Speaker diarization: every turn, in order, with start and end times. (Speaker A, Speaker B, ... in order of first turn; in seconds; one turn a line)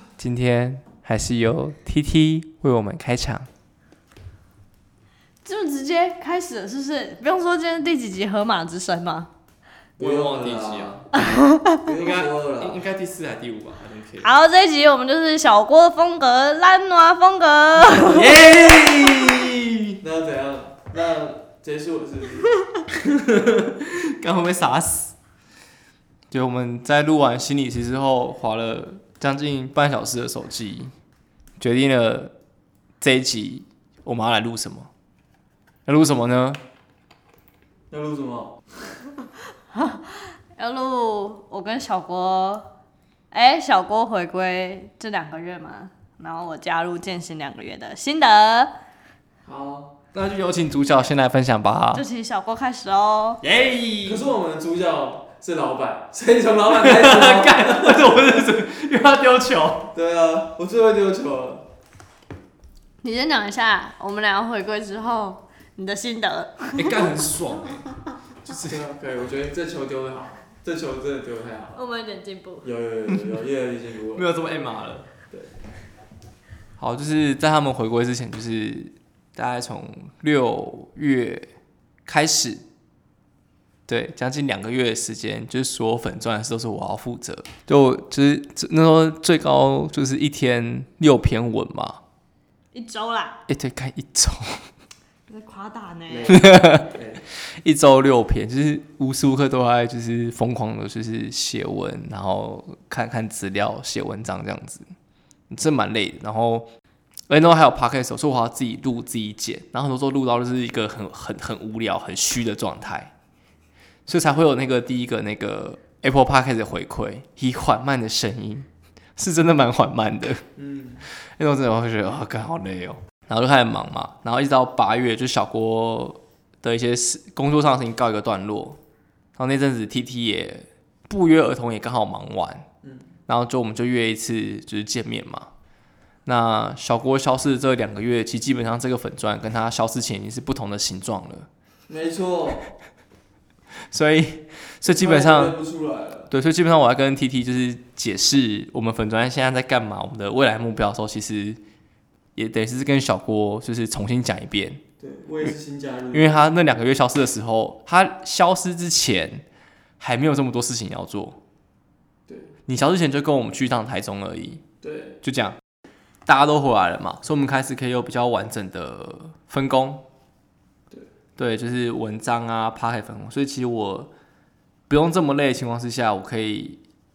Speaker A: 0.2-3.5
Speaker B: 5.4-9.3
Speaker A: 10.0-11.0
Speaker C: 10.0-12.8
Speaker B: 11.2-11.8
Speaker A: 11.9-14.3
Speaker B: 14.2-18.2
Speaker A: 17.9-20.0
Speaker C: 20.0-22.5
Speaker A: 22.9-25.1
Speaker A: 26.3-30.9
Speaker A: 31.6-32.3
Speaker A: 33.0-34.9
Speaker A: 35.9-36.6
Speaker C: 37.9-38.6
Speaker B: 39.7-42.7
Speaker B: 43.3-48.7
Speaker C: 49.4-49.9
Speaker A: 50.1-52.0
Speaker B: 51.9-53.4
Speaker A: 53.4-54.2
Speaker C: 54.0-58.1
Speaker A: 56.7-59.9
Speaker C: 59.9-61.7
Speaker B: 63.0-67.1
Speaker A: 66.8-68.8
Speaker C: 68.7-71.8
Speaker B: 71.7-72.7
Speaker C: 72.6-74.3
Speaker A: 74.1-75.1
Speaker A: 76.8-81.5
Speaker A: 82.0-82.6
Speaker A: 83.9-92.0
Speaker B: 92.7-93.4
Speaker A: 93.5-94.7
Speaker B: 95.3-96.4
Speaker C: 96.1-97.2
Speaker A: 96.3-104.8
Speaker A: 105.5-106.7
Speaker A: 107.3-113.1
Speaker A: 114.1-120.4
Speaker C: 120.5-121.0
Speaker A: 121.2-128.8
Speaker A: 129.4-132.7
Speaker A: 133.3-135.5
Speaker A: 136.2-141.5
Speaker C: 141.9-142.7
Speaker A: 143.9-145.6
Speaker C: 144.8-146.3
Speaker A: 146.3-151.6
Speaker A: 152.3-154.8
Speaker C: 155.0-156.3
Speaker A: 156.1-159.4
Speaker A: 160.0-161.4
Speaker A: 162.7-164.6
Speaker C: 164.8-165.2
Speaker A: 165.2-165.6
Speaker A: 166.2-170.0
Speaker A: 171.4-174.1
Speaker A: 174.9-176.8